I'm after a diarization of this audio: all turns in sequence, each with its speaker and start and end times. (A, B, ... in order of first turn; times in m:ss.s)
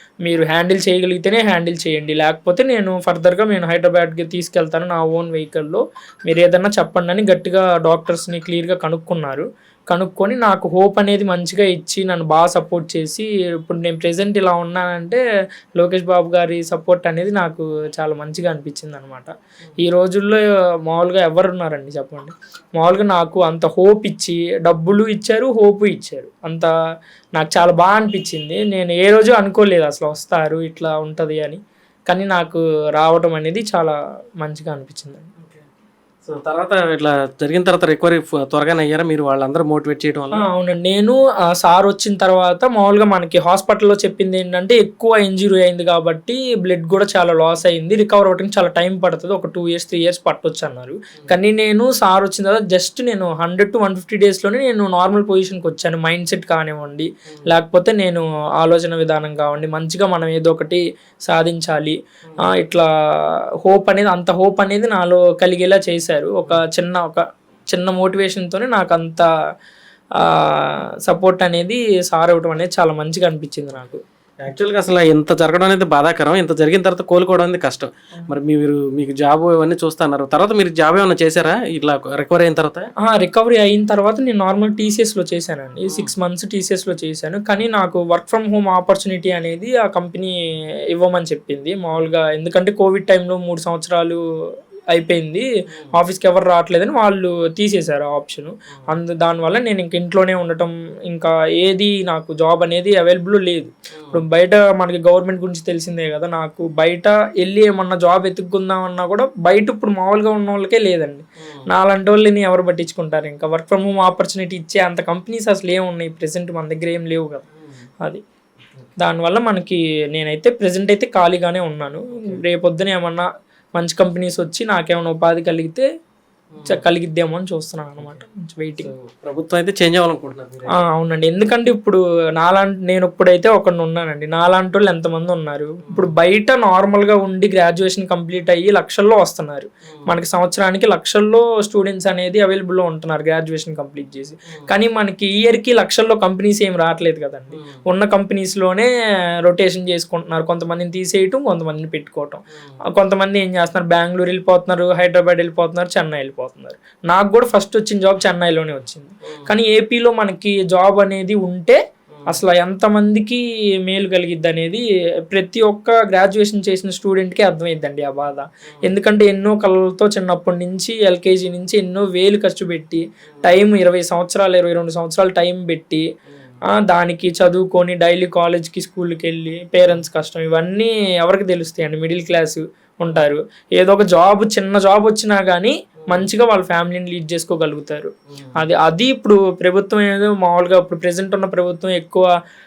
0:00.2-0:15.2 A
0:15.8-0:19.3 A
0:19.8-0:26.7 A
0:27.4-0:35.3 A
0:36.2-0:40.4 B
0:40.3-1:02.0 A
1:02.5-1:02.9 A
1:03.6-1:09.3 A
1:10.2-1:14.0 A
1:14.4-1:22.9 B
1:23.0-1:30.4 A
1:30.9-1:34.2 A
1:34.9-1:57.4 A
1:43.9-1:44.2 B
1:57.6-1:57.9 B
1:59.0-2:05.8 A
2:06.6-2:06.8 B
2:06.6-2:08.9 A
2:08.8-2:10.8 B
2:10.8-2:28.9 A
2:27.5-2:27.8 B
2:29.5-2:41.8 A
2:42.3-2:56.0 A
2:53.2-2:53.6 B
2:56.3-2:56.6 B
2:56.8-3:12.3 A
3:08.3-3:08.6 B